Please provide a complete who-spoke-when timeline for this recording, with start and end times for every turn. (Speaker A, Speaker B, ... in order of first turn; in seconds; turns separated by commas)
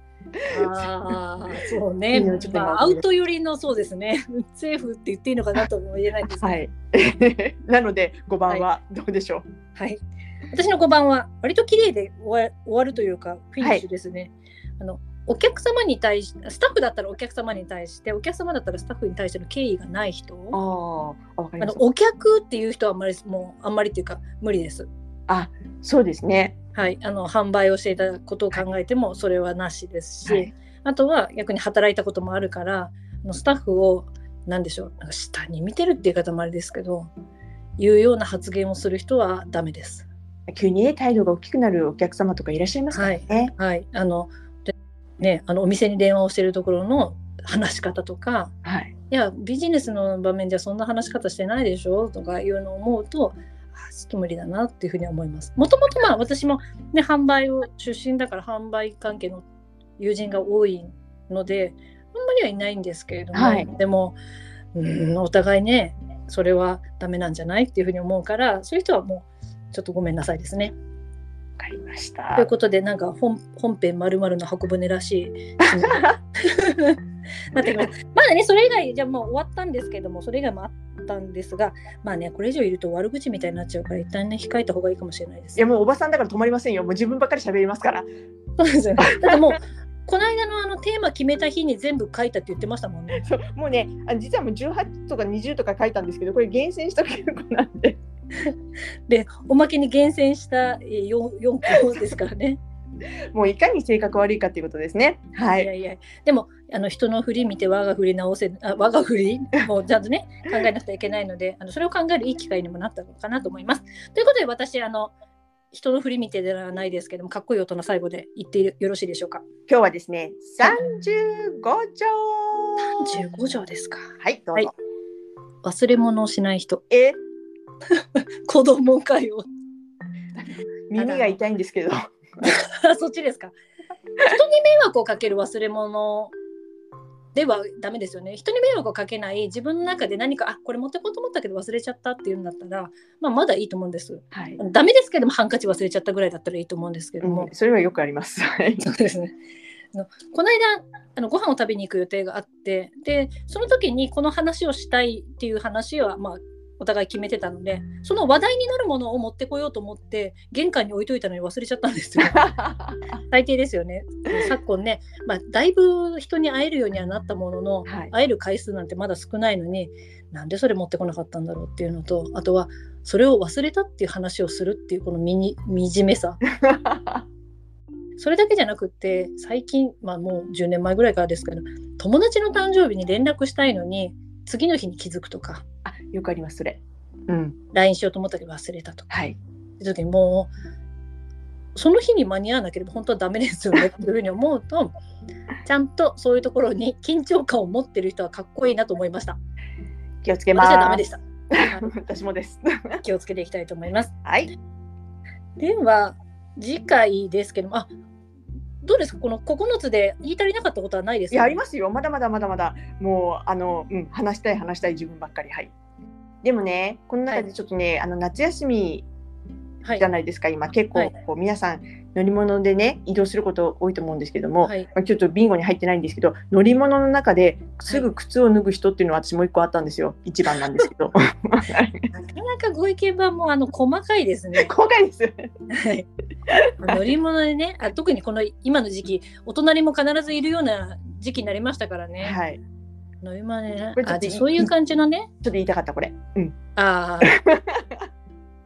Speaker A: 0.5-6.5, Speaker B: 0.5-0.9, Speaker B: 2.1-3.0, Speaker B: 6.4-9.4, Speaker A: 9.7-20.6, Speaker B: 20.5-21.8, Speaker A: 21.6-24.9, Speaker B: 25.3-26.6, Speaker A: 26.7-37.1, Speaker B: 30.2-30.5, Speaker A: 37.8-40.1, Speaker B: 40.5-43.5, Speaker A: 42.9-48.5, Speaker B: 48.6-48.9, Speaker A: 49.1-59.4, Speaker A: 60.0-64.2, Speaker B: 63.3-63.7, Speaker A: 64.7-70.7, Speaker B: 71.6-72.5, Speaker A: 72.3-77.0, Speaker B: 75.6-76.2, Speaker A: 77.5-85.6, Speaker B: 77.5-77.9, Speaker B: 85.6-88.1, Speaker A: 88.6-93.3, Speaker B: 89.0-89.5, Speaker B: 93.2-98.0, Speaker A: 99.1-102.6, Speaker B: 103.3-105.7, Speaker A: 105.6-115.1, Speaker A: 115.7-119.4, Speaker B: 119.7-123.2, Speaker A: 122.8-124.7, Speaker B: 124.2-124.7, Speaker A: 125.6-126.8, Speaker B: 126.9-127.2, Speaker A: 127.9-129.4, Speaker B: 130.3-132.0, Speaker A: 131.0-131.4, Speaker A: 132.4-133.5, Speaker A: 134.2-136.3, Speaker A: 137.3-147.5, Speaker B: 144.3-144.6, Speaker B: 147.2-148.9, Speaker A: 148.8-149.3, Speaker A: 149.9-162.5, Speaker B: 162.3-163.0, Speaker A: 163.3-176.4, Speaker B: 167.9-168.1, Speaker B: 176.5-177.2, Speaker A: 178.2-185.6, Speaker B: 185.8-187.6, Speaker A: 187.7-189.1, Speaker B: 189.1-189.4, Speaker A: 189.8-190.5, Speaker A: 191.7-194.9, Speaker A: 195.6-199.4, Speaker B: 200.2-203.0, Speaker A: 200.5-201.9, Speaker A: 203.0-204.1, Speaker B: 204.2-204.5, Speaker A: 205.6-207.9, Speaker A: 208.8-211.6, Speaker B: 211.3-215.7, Speaker B: 216.4-219.1, Speaker B: 219.9-232.1, Speaker A: 224.6-224.9, Speaker A: 232.1-234.7, Speaker B: 234.6-235.5, Speaker A: 235.7-236.1, Speaker B: 236.5-237.1, Speaker A: 236.8-242.4, Speaker B: 242.2-242.6, Speaker A: 243.2-245.3, Speaker B: 244.0-244.7, Speaker B: 245.4-246.6, Speaker A: 246.8-247.4, Speaker B: 247.2-247.9